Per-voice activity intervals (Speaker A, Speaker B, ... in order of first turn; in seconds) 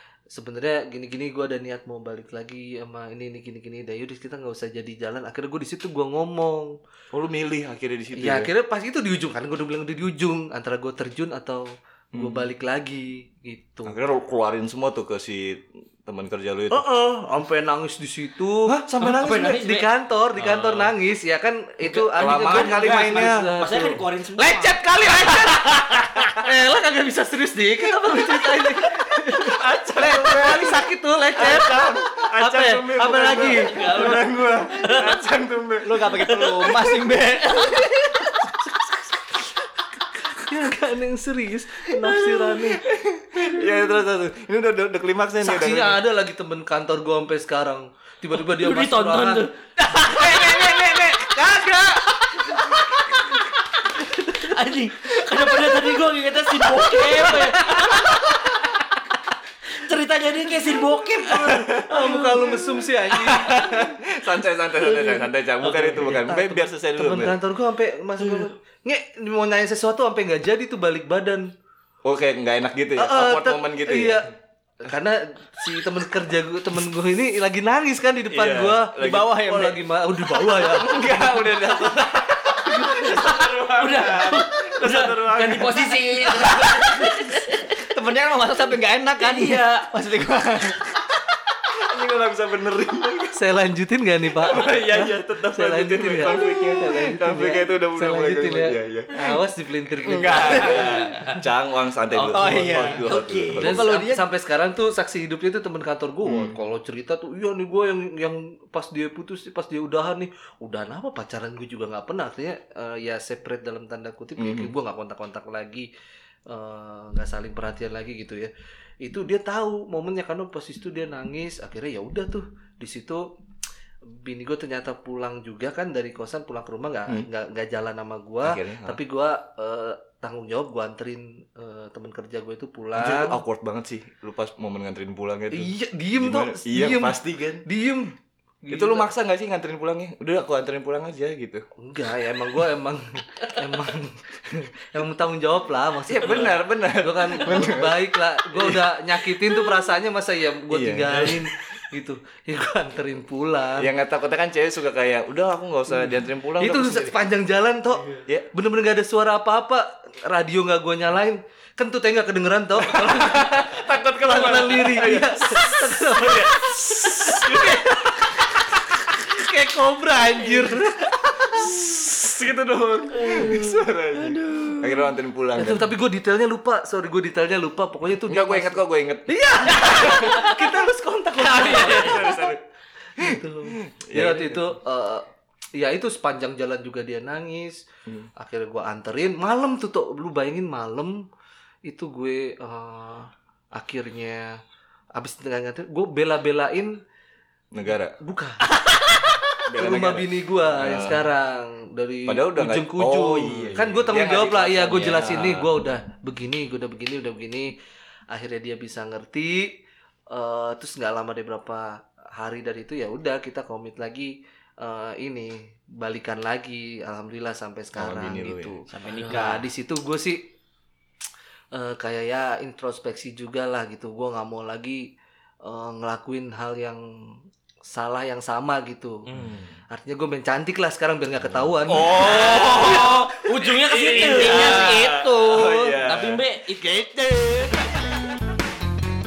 Speaker A: 0.3-6.7, 8.1-13.9, 16.7-18.8, 19.6-25.7, 26.4-33.8, 38.5-38.9, 40.2-42.9, 45.4-49.5, 50.2-54.6, 57.2-58.2, 61.7-63.6, 66.0-71.5, 73.0-81.3, 93.3-101.0, 103.6-115.9, 116.5-118.5, 119.0-123.2, 124.1-133.4, 135.5-139.1, 141.8-153.9, 156.6-171.8, 175.6-182.5, 183.2-187.8, 188.4-191.2, 191.8-194.6, 195.1-197.0, 198.2-198.8, 199.8-207.8, 208.3-209.8, 210.3-220.4, 221.7-225.1, 225.6-229.2, 229.9-233.1, 234.1-234.8
Speaker B: 7.1-8.5, 12.1-12.4, 13.8-16.8, 18.7-19.6, 21.8-23.5, 29.4-36.7, 42.9-46.0, 61.3-61.9, 63.1-67.4, 72.0-74.2, 78.3-79.4, 80.4-87.1, 91.6-93.4, 94.3-99.4, 99.9-103.8, 106.2-106.6, 114.4-114.7, 128.4-129.0, 132.9-137.6, 138.7-141.6, 146.1-148.8, 150.7-151.5, 153.8-157.2, 162.8-169.0, 171.4-175.9, 178.3-180.4, 181.4-182.6, 183.2-184.7, 197.7-198.2, 199.7-201.3, 202.3-205.7, 217.9-218.8, 231.8-233.3, 233.8-236.4
Speaker C: 19.0-20.9, 22.2-26.2, 33.4-35.2, 36.3-37.9, 43.4-43.7, 48.3-59.0, 59.7-62.6, 64.9-66.2, 82.9-87.8, 89.2-89.9, 100.6-101.4, 102.1-103.8, 173.2-173.7, 174.4-174.8, 179.9-180.5, 181.4-182.3, 198.7-199.6, 219.1-219.5, 229.2-229.7, 232.1-238.1
Speaker D: 35.8-38.0, 79.0-79.8, 87.8-91.0, 102.3-104.2, 218.9-219.7